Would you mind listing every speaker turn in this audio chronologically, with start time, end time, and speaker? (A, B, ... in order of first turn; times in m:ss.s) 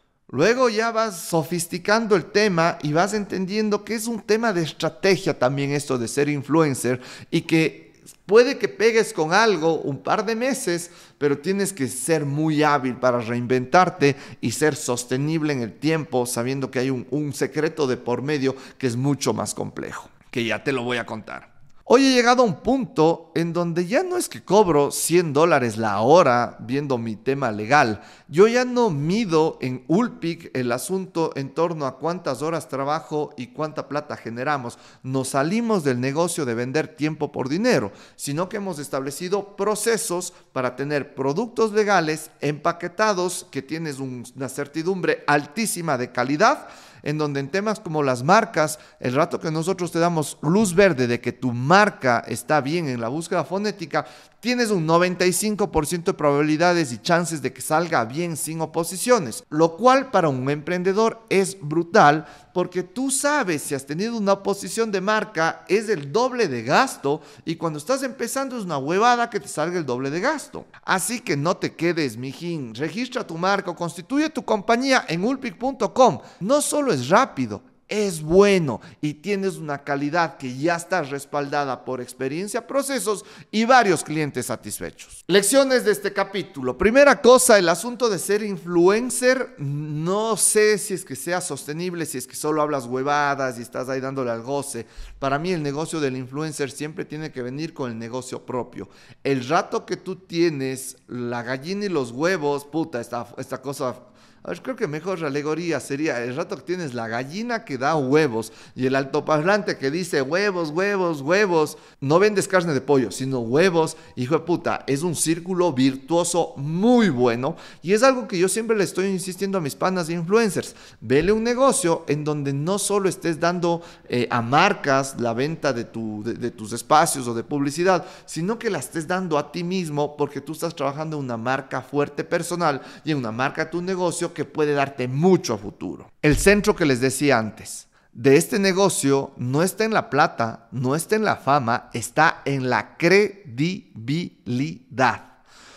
0:00.3-2:25.3 A